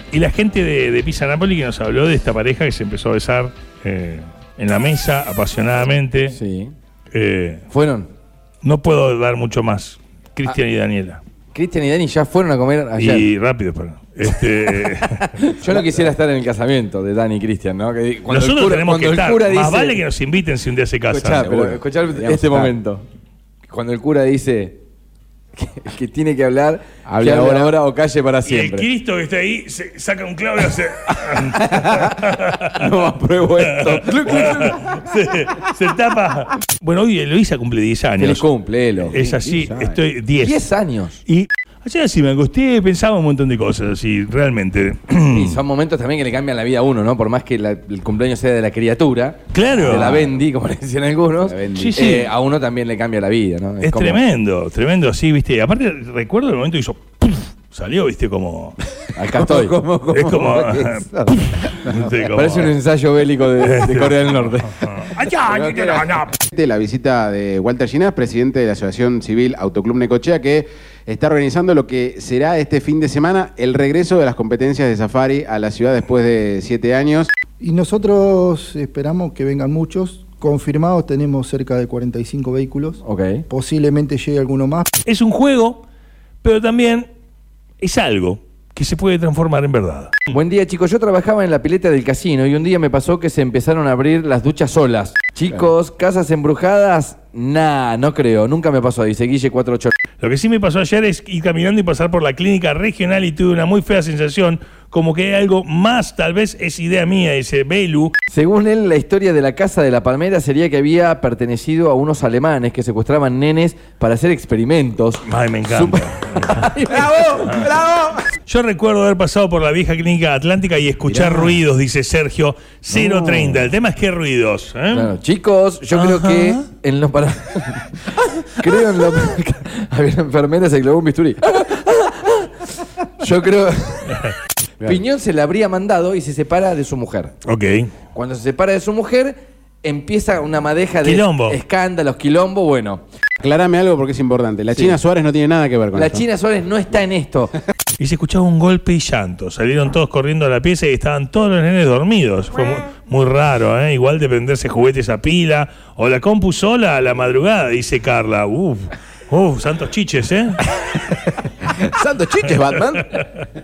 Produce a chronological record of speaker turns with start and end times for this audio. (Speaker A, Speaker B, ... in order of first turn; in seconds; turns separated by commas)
Speaker A: 0.1-6.4, Speaker B: 6.3-6.7, Speaker A: 7.1-7.7, Speaker B: 7.7-8.1, Speaker A: 8.6-11.2, Speaker B: 11.5-13.3, Speaker A: 13.0-15.5, Speaker B: 14.8-20.0, Speaker A: 18.3-21.5, Speaker B: 21.1-23.1, Speaker C: 21.5-22.7, Speaker B: 23.7-24.8, Speaker B: 25.6-28.9, Speaker C: 27.1-27.7, Speaker A: 28.4-32.9, Speaker B: 31.4-34.9, Speaker A: 33.6-38.5, Speaker B: 38.2-39.2, Speaker A: 39.0-40.6, Speaker C: 39.2-39.9, Speaker B: 40.4-41.2, Speaker A: 41.3-45.6, Speaker B: 45.3-54.2, Speaker A: 49.5-50.3, Speaker C: 51.4-52.0, Speaker A: 51.7-52.3, Speaker A: 53.8-58.8, Speaker B: 59.1-60.5, Speaker A: 60.1-62.8, Speaker B: 62.3-66.0, Speaker A: 63.6-66.4, Speaker C: 66.5-77.3, Speaker D: 77.6-84.9, Speaker B: 83.0-83.5, Speaker A: 85.1-85.8, Speaker A: 86.4-87.1, Speaker A: 87.8-90.3, Speaker B: 90.3-99.9, Speaker A: 100.2-108.1, Speaker B: 108.3-118.0, Speaker A: 115.2-116.6, Speaker A: 118.5-125.1, Speaker B: 124.9-132.7, Speaker A: 125.9-126.6, Speaker B: 133.2-137.3, Speaker A: 137.4-137.9, Speaker B: 138.1-143.0, Speaker A: 141.0-141.6, Speaker C: 143.4-146.3, Speaker B: 145.9-147.5, Speaker A: 148.0-160.6, Speaker B: 161.0-161.3, Speaker B: 162.0-163.0, Speaker A: 162.4-163.4